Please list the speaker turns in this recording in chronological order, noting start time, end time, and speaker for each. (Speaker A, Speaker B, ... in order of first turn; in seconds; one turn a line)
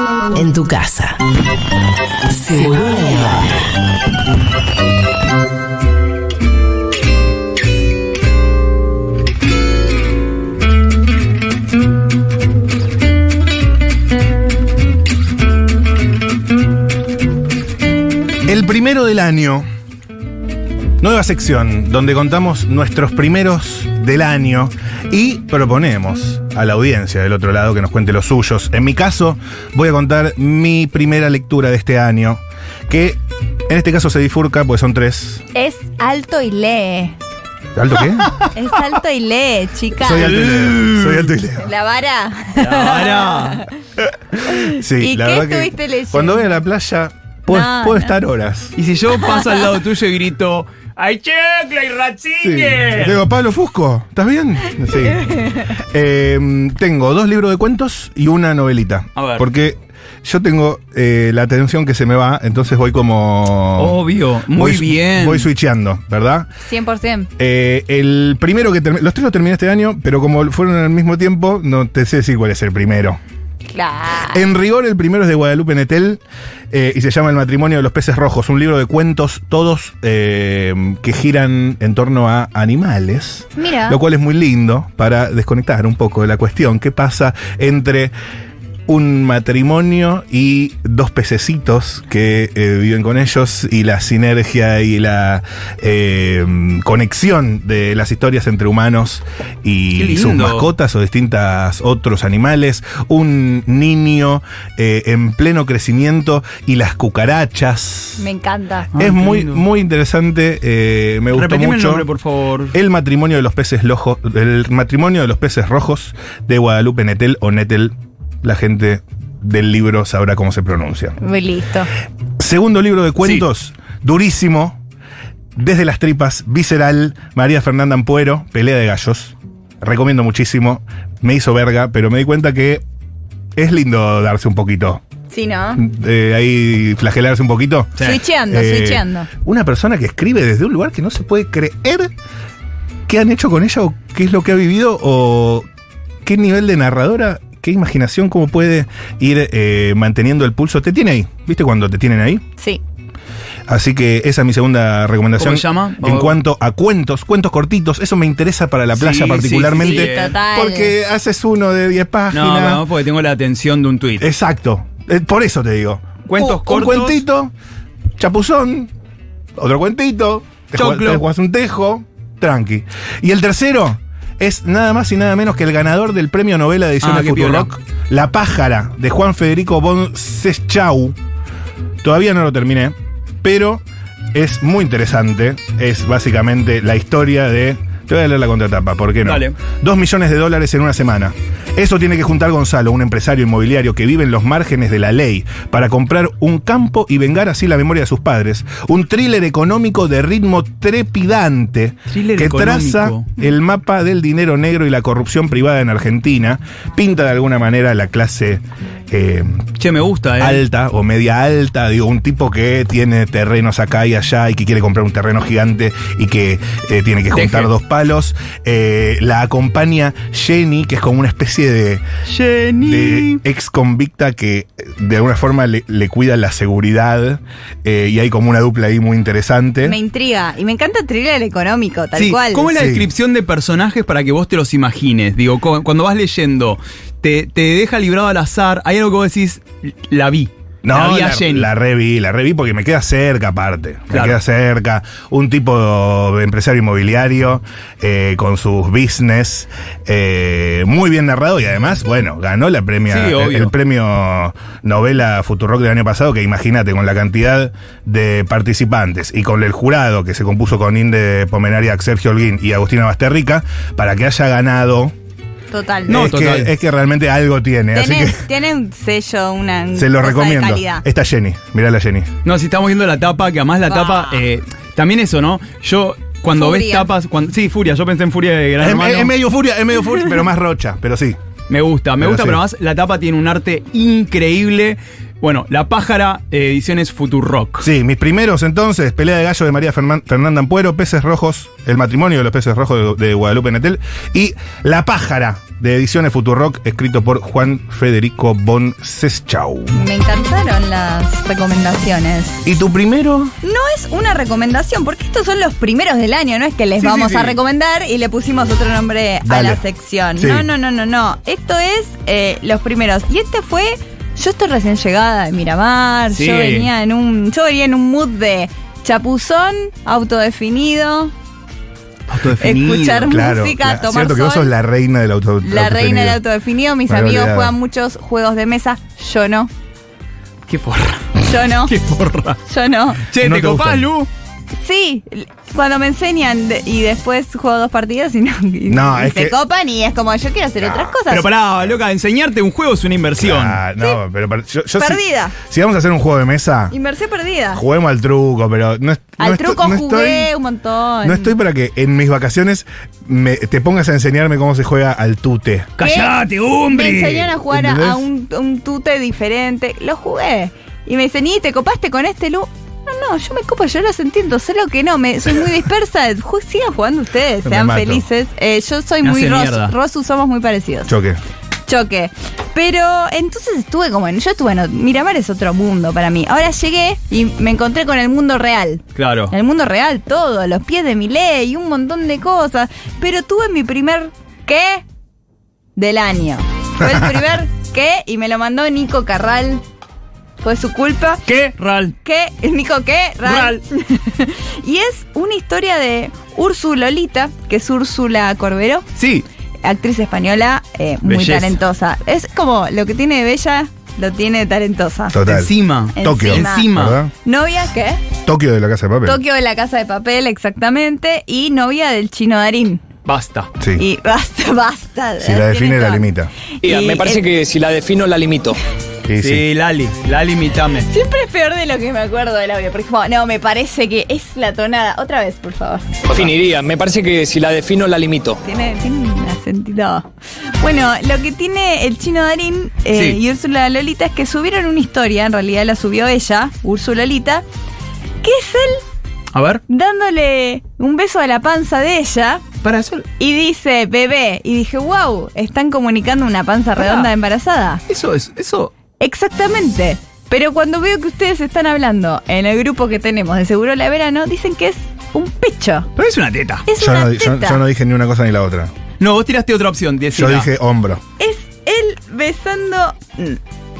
Speaker A: 0.3-1.2
Speaker A: 2.3-3.6
Speaker B: 18.4-19.6
Speaker B: 21.0-35.4
Speaker C: 35.5-37.1
Speaker B: 37.7-38.3
Speaker C: 38.5-40.3
Speaker B: 40.0-41.7
Speaker D: 40.2-41.4
Speaker C: 41.6-43.7
Speaker D: 42.5-43.6
Speaker C: 44.5-46.6
Speaker B: 44.5-48.7
Speaker C: 47.5-48.2
Speaker D: 48.8-53.2
Speaker B: 52.4-64.0
Speaker C: 55.1-55.5
Speaker D: 59.1-59.4
Speaker D: 63.8-65.5
Speaker B: 64.5-66.5
Speaker C: 66.6-67.3
Speaker B: 67.4-73.2
Speaker C: 73.7-74.4
Speaker B: 74.2-88.1
Speaker C: 83.5-84.0
Speaker B: 88.9-108.3
Speaker D: 99.9-100.7
Speaker C: 108.2-108.9
Speaker D: 108.9-109.6
Speaker B: 108.9-112.1
Speaker D: 111.3-112.7
Speaker B: 112.7-121.2
Speaker C: 121.2-121.9
Speaker B: 122.4-124.8
Speaker B: 125.6-132.8
Speaker B: 133.6-135.0
Speaker C: 135.3-135.8
Speaker B: 135.8-142.1
Speaker C: 138.0-139.3
Speaker B: 143.1-145.6
Speaker B: 146.2-152.4
Speaker B: 153.7-162.8
Speaker D: 155.4-156.4
Speaker D: 158.9-160.3
Speaker C: 159.8-160.9
Speaker D: 162.3-164.3
Speaker B: 164.2-167.5
Speaker D: 166.2-167.2
Speaker B: 168.2-168.9
Speaker B: 169.6-181.2
Speaker D: 170.7-171.2
Speaker D: 177.0-177.7
Speaker B: 182.0-183.8
Speaker B: 184.3-209.6
Speaker D: 189.2-189.5
Speaker D: 202.1-203.3
Speaker D: 209.8-210.6
Speaker B: 210.4-222.0
Speaker D: 217.3-217.7
Speaker D: 222.3-223.4
Speaker B: 222.8-230.0
Speaker C: 229.8-232.7
Speaker D: 232.1-241.7
Speaker B: 232.7-233.1
Speaker B: 240.8-265.1
Speaker D: 244.1-244.4
Speaker D: 253.1-253.7
Speaker C: 265.7-266.2
Speaker D: 266.1-266.7
Speaker B: 266.1-268.4
Speaker C: 267.9-271.0
Speaker B: 269.9-272.3
Speaker D: 272.4-279.3
Speaker C: 273.9-274.4
Speaker C: 276.5-277.1
Speaker B: 278.8-281.4
Speaker D: 281.7-287.9
Speaker B: 282.2-282.6
Speaker B: 287.8-300.0
Speaker C: 299.9-302.6
Speaker B: 302.6-303.5
Speaker C: 303.6-321.3
Speaker D: 307.0-307.6
Speaker B: 309.4-309.8
Speaker B: 310.4-310.7
Speaker D: 316.3-316.9
Speaker D: 322.3-323.4
Speaker C: 322.6-324.7
Speaker B: 323.3-326.4
Speaker C: 325.6-329.7
Speaker B: 327.1-327.7
Speaker D: 330.7-332.6
Speaker C: 331.4-331.9
Speaker C: 332.7-333.2
Speaker D: 333.3-334.3
Speaker B: 333.4-334.1
Speaker C: 334.8-341.4
Speaker B: 338.9-339.6
Speaker B: 340.8-341.2
Speaker D: 341.3-343.8
Speaker B: 343.4-346.9
Speaker C: 345.0-345.5
Speaker C: 346.9-347.8
Speaker B: 347.7-350.5
Speaker C: 349.4-351.5
Speaker B: 351.2-355.9
Speaker D: 356.0-357.5
Speaker C: 356.0-356.3
Speaker C: 356.9-371.1
Speaker B: 357.5-358.2
Speaker B: 367.6-368.2
Speaker D: 369.2-369.9
Speaker B: 371.1-371.4
Speaker C: 371.9-385.0
Speaker D: 379.1-379.5
Speaker C: 385.9-389.8
Speaker B: 387.0-387.4
Speaker C: 390.6-391.4
Speaker D: 391.4-392.1
Speaker C: 392.2-399.0
Speaker D: 393.4-393.8
Speaker D: 399.1-399.4
Speaker C: 399.8-405.4
Speaker D: 401.2-401.8
Speaker B: 405.3-407.3
Speaker D: 405.5-407.2
Speaker C: 406.1-406.9
Speaker C: 407.4-408.2
Speaker B: 408.4-409.4
Speaker C: 409.2-413.0
Speaker D: 413.2-413.7
Speaker B: 413.8-414.1
Speaker C: 413.9-416.3
Speaker B: 415.4-416.5
Speaker C: 416.8-417.5
Speaker E: 416.8-418.8
Speaker B: 419.3-419.6
Speaker D: 419.4-421.1
Speaker C: 421.1-426.0
Speaker E: 426.3-428.6
Speaker C: 428.6-430.3
Speaker C: 430.8-437.6
Speaker C: 438.4-439.0
Speaker D: 439.5-439.8
Speaker C: 439.9-442.6
Speaker D: 442.8-443.2
Speaker C: 443.4-448.0
Speaker D: 446.9-447.3
Speaker D: 448.1-448.9
Speaker C: 449.2-456.1
Speaker D: 456.1-456.9
Speaker C: 456.9-457.8
Speaker B: 457.0-458.9
Speaker D: 459.2-460.7
Speaker B: 460.3-461.2
Speaker C: 461.4-463.6